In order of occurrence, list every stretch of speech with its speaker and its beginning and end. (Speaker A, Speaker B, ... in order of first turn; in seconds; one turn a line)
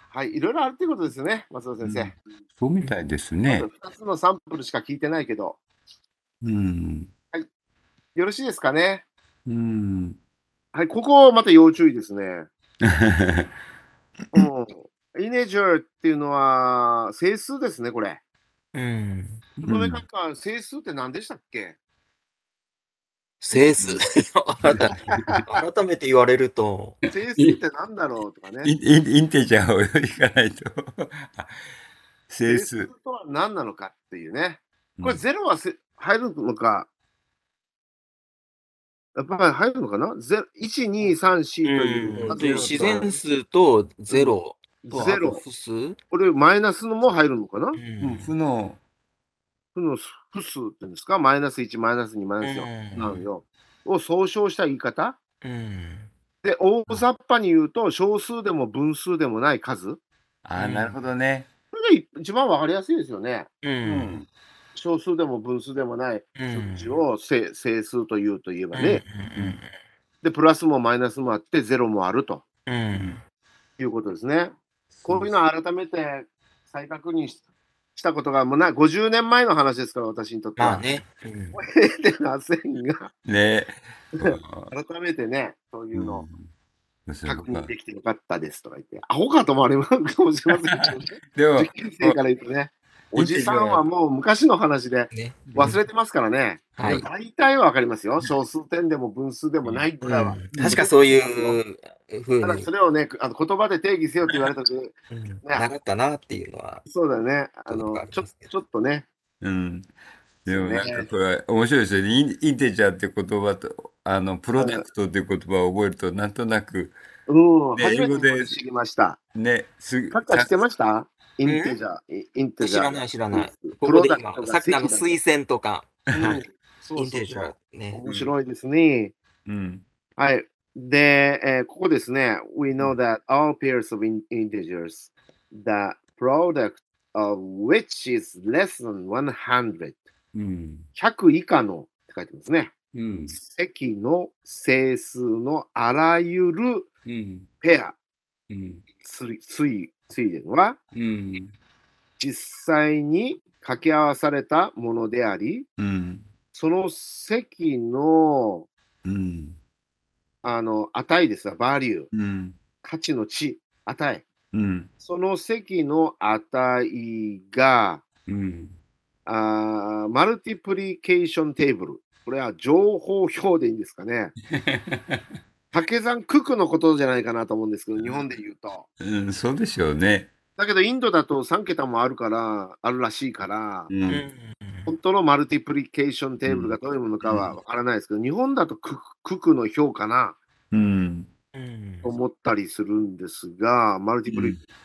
Speaker A: 0.1-2.2
Speaker B: 1.8-3.7
Speaker A: 3.5-5.6
Speaker B: 6.4-7.1
Speaker A: 8.2-9.1
Speaker B: 9.5-10.2
Speaker A: 10.7-12.5
Speaker B: 12.8-13.5
Speaker A: 14.3-18.2
Speaker C: 18.7-19.4
Speaker B: 19.6-20.0
Speaker A: 19.7-21.8
Speaker C: 23.4-27.0
Speaker B: 24.7-25.4
Speaker A: 25.1-25.4
Speaker A: 27.1-28.7
Speaker B: 28.6-31.5
Speaker B: 32.3-32.9
Speaker A: 32.5-36.9
Speaker B: 35.0-35.2
Speaker A: 39.1-43.2
Speaker C: 41.6-46.0
Speaker B: 42.2-43.0
Speaker A: 44.9-45.4
Speaker A: 46.1-47.8
Speaker C: 47.8-48.3
Speaker B: 48.0-48.8
Speaker A: 49.8-55.2
Speaker C: 52.4-53.3
Speaker C: 55.4-56.1
Speaker A: 56.4-60.0
Speaker B: 60.4-61.5
Speaker C: 60.6-61.0
Speaker A: 61.7-63.5
Speaker C: 63.6-64.2
Speaker B: 63.9-64.3
Speaker A: 64.8-69.0
Speaker C: 66.4-67.0
Speaker C: 68.7-69.7
Speaker B: 69.3-69.6
Speaker A: 70.2-72.4
Speaker C: 72.7-73.2
Speaker A: 73.8-77.4
Speaker B: 74.9-75.4
Speaker A: 78.0-80.9
Speaker C: 80.6-81.6
Speaker A: 81.5-83.1
Speaker B: 83.2-84.7
Speaker A: 84.2-86.3
Speaker B: 86.0-86.5
Speaker B: 87.1-87.7
Speaker A: 87.2-101.6
Speaker B: 91.3-92.2
Speaker B: 93.2-93.8
Speaker C: 95.1-95.8
Speaker B: 95.5-95.8
Speaker C: 96.8-97.1
Speaker C: 100.0-102.7
Speaker B: 100.5-100.8
Speaker A: 102.4-104.9
Speaker C: 105.1-106.8
Speaker A: 106.9-109.1
Speaker C: 107.7-108.5
Speaker B: 109.4-109.9
Speaker B: 110.5-117.0
Speaker A: 110.5-111.1
Speaker A: 114.6-114.8
Speaker A: 117.3-119.2
Speaker B: 117.8-118.6
Speaker B: 119.3-120.6
Speaker A: 120.1-125.1
Speaker C: 121.5-121.8
Speaker C: 122.6-126.4
Speaker A: 126.1-129.1
Speaker C: 127.0-128.0
Speaker B: 128.1-128.3
Speaker B: 129.5-129.8
Speaker A: 130.2-140.0
Speaker B: 140.3-140.9
Speaker A: 141.0-142.7
Speaker B: 142.9-143.4
Speaker A: 143.3-146.9
Speaker B: 147.1-147.5
Speaker A: 147.6-147.9
Speaker B: 148.5-148.8
Speaker A: 149.0-150.8
Speaker B: 150.9-151.5
Speaker A: 152.2-155.7
Speaker B: 155.8-156.3
Speaker A: 156.5-158.7
Speaker B: 159.1-159.6
Speaker A: 160.4-162.1
Speaker B: 162.1-162.6
Speaker A: 162.8-164.2
Speaker B: 164.5-164.9
Speaker A: 165.0-168.0
Speaker B: 168.3-168.8
Speaker A: 169.3-174.3
Speaker B: 174.5-175.2
Speaker A: 175.7-178.9
Speaker B: 179.0-180.3
Speaker A: 180.6-183.9
Speaker B: 183.9-184.2
Speaker C: 184.1-184.9
Speaker A: 184.9-190.4
Speaker B: 186.5-186.8
Speaker B: 187.3-187.5
Speaker B: 190.7-191.3
Speaker C: 191.6-192.1
Speaker A: 192.0-194.6
Speaker B: 194.3-194.6